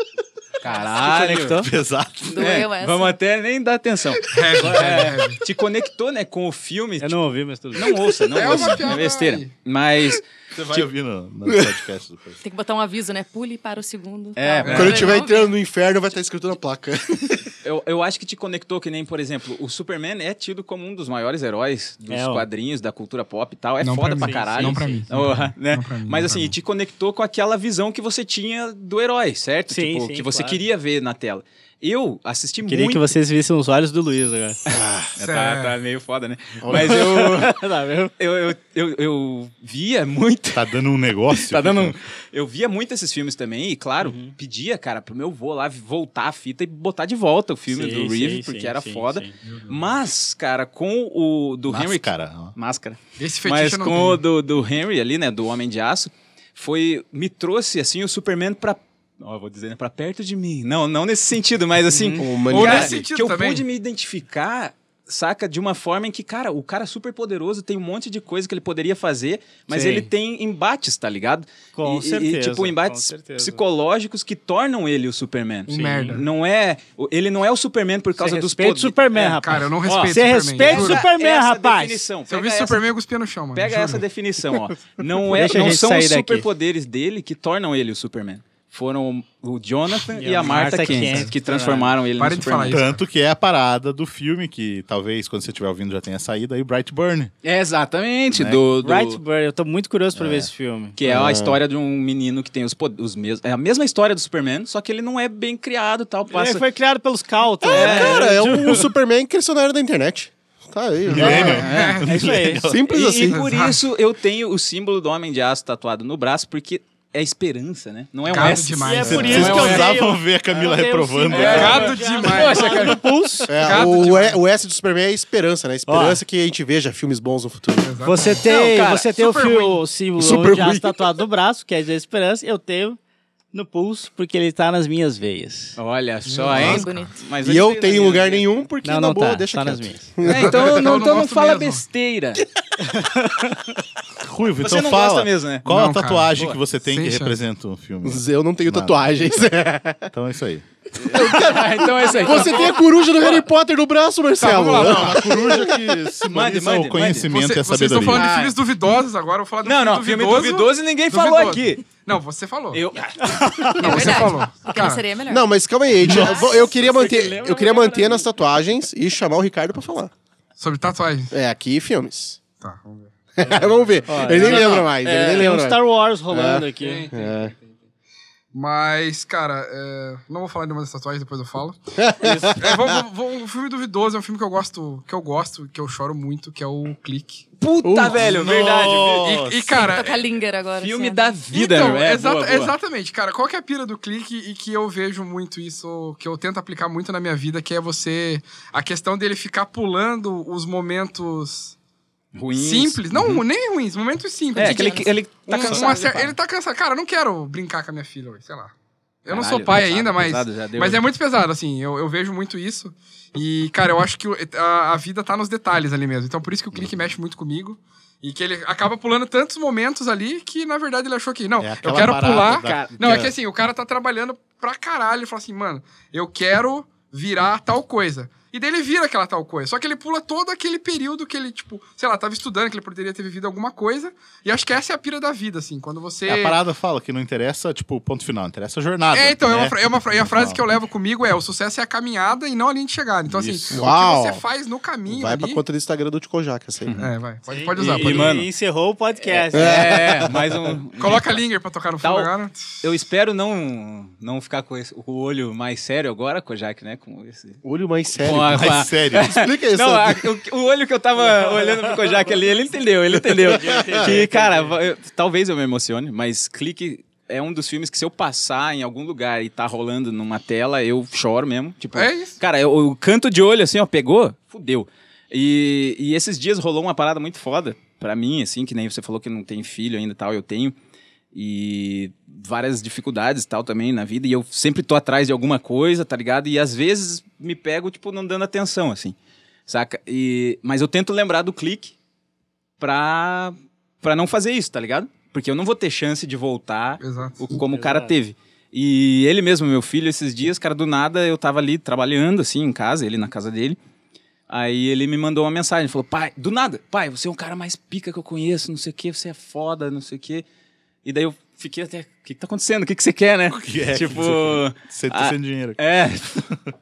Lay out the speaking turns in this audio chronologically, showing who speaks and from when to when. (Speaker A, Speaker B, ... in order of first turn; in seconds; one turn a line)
Speaker A: 0.6-1.6
Speaker B: 1.0-1.7
Speaker C: 1.5-2.4
Speaker A: 2.2-10.2
Speaker D: 2.3-3.2
Speaker E: 4.3-5.4
Speaker B: 7.0-8.6
Speaker E: 8.3-9.5
Speaker C: 10.5-12.4
Speaker F: 11.4-11.7
Speaker D: 12.4-15.6
Speaker A: 14.3-15.2
Speaker E: 14.6-15.0
Speaker F: 14.7-17.5
Speaker A: 17.6-33.1
Speaker B: 22.1-22.4
Speaker E: 23.8-26.5
Speaker B: 24.2-25.1
Speaker B: 29.7-30.6
Speaker B: 32.7-34.8
Speaker A: 34.7-37.6
Speaker E: 35.2-35.7
Speaker F: 36.6-37.1
Speaker B: 36.7-38.1
Speaker A: 38.2-40.6
Speaker C: 40.5-42.0
Speaker A: 41.3-79.0
Speaker B: 44.0-44.3
Speaker B: 47.7-49.4
Speaker E: 49.4-50.0
Speaker C: 51.7-52.5
Speaker E: 53.2-54.2
Speaker B: 61.9-62.3
Speaker F: 62.2-63.0
Speaker E: 62.5-63.6
Speaker B: 69.7-70.1
Speaker B: 71.7-73.6
Speaker E: 75.7-76.3
Speaker B: 78.2-82.1
Speaker E: 79.1-81.0
Speaker A: 79.8-82.8
Speaker E: 82.3-84.0
Speaker A: 83.5-92.8
Speaker B: 85.3-86.5
Speaker B: 90.1-92.0
Speaker E: 92.2-93.0
Speaker C: 92.5-97.3
Speaker A: 97.4-99.2
Speaker C: 98.3-98.6
Speaker B: 98.7-100.9
Speaker C: 100.2-100.5
Speaker A: 101.0-106.6
Speaker F: 101.0-101.6
Speaker B: 106.3-108.9
Speaker F: 107.6-111.7
Speaker A: 107.6-108.2
Speaker C: 111.1-112.8
Speaker B: 111.1-112.6
Speaker A: 111.2-112.0
Speaker E: 111.3-112.1
Speaker F: 112.5-113.4
Speaker A: 112.9-120.0
Speaker E: 113.3-113.8
Speaker E: 118.3-119.6
Speaker B: 118.5-123.9
Speaker C: 119.0-121.9
Speaker A: 121.3-123.0
Speaker E: 121.3-123.0
Speaker F: 123.5-127.9
Speaker E: 123.6-124.4
Speaker B: 125.9-126.2
Speaker E: 127.8-128.3
Speaker B: 128.0-133.0
Speaker A: 128.4-129.1
Speaker E: 129.1-129.8
Speaker F: 130.2-131.0
Speaker B: 133.5-135.8
Speaker A: 135.8-138.6
Speaker E: 136.2-137.0
Speaker F: 136.5-136.8
Speaker D: 136.5-137.2
Speaker F: 137.4-140.9
Speaker B: 138.8-140.1
Speaker A: 140.2-142.4
Speaker E: 140.3-141.8
Speaker B: 142.8-143.7
Speaker C: 144.2-149.0
Speaker A: 144.6-145.7
Speaker E: 145.7-147.4
Speaker F: 148.0-150.1
Speaker C: 150.1-151.3
Speaker A: 150.9-153.4
Speaker F: 151.1-156.0
Speaker E: 152.2-152.7
Speaker E: 154.4-155.2
Speaker C: 154.8-158.3
Speaker A: 156.3-157.3
Speaker E: 157.2-162.8
Speaker A: 158.0-158.6
Speaker A: 159.6-161.8
Speaker A: 162.7-164.0
Speaker B: 163.2-163.8
Speaker E: 163.8-165.1
Speaker D: 163.8-165.5
Speaker F: 165.3-170.1
Speaker C: 166.0-166.4
Speaker D: 166.2-166.6
Speaker B: 166.4-168.2
Speaker A: 166.9-167.4
Speaker E: 170.6-171.3
Speaker F: 171.3-172.4
Speaker E: 172.6-174.4
Speaker F: 173.4-177.5
Speaker B: 174.1-177.1
Speaker C: 174.4-174.8
Speaker E: 176.8-177.8
Speaker E: 178.5-181.8
Speaker F: 182.0-183.0
Speaker B: 182.2-182.6
Speaker E: 182.6-187.4
Speaker A: 187.6-189.3
Speaker F: 187.8-188.2
Speaker C: 187.9-190.0
Speaker E: 189.2-190.2
Speaker D: 189.7-191.4
Speaker A: 190.8-192.7
Speaker E: 191.5-201.7
Speaker A: 202.3-203.4
Speaker E: 202.6-208.7
Speaker A: 204.5-206.3
Speaker D: 204.6-206.1
Speaker E: 209.2-236.6
Speaker A: 209.3-211.0
Speaker C: 221.6-223.3
Speaker A: 222.6-223.2
Speaker C: 236.2-240.6
Speaker E: 239.1-245.6
Speaker C: 243.3-243.7
Speaker F: 243.7-244.4
Speaker F: 245.1-246.9
Speaker A: 246.8-247.1
Speaker E: 247.0-248.3
Speaker B: 247.5-250.0
Speaker A: 247.8-248.5
Speaker A: 249.2-251.3
Speaker F: 249.5-250.3
Speaker E: 251.0-252.6
Speaker A: 252.0-252.3
Speaker A: 252.8-257.6
Speaker F: 257.6-260.4
Speaker A: 258.2-280.7
Speaker C: 258.4-259.3
Speaker B: 263.4-264.8
Speaker F: 263.7-264.1
Speaker E: 271.9-272.4
Speaker A: 281.3-289.1
Speaker A: 289.7-291.9
Speaker A: 292.8-303.8
Speaker E: 297.0-297.4
Speaker B: 297.6-298.1
Speaker A: 304.5-310.4
Speaker A: 311.0-316.4
Speaker C: 313.5-315.8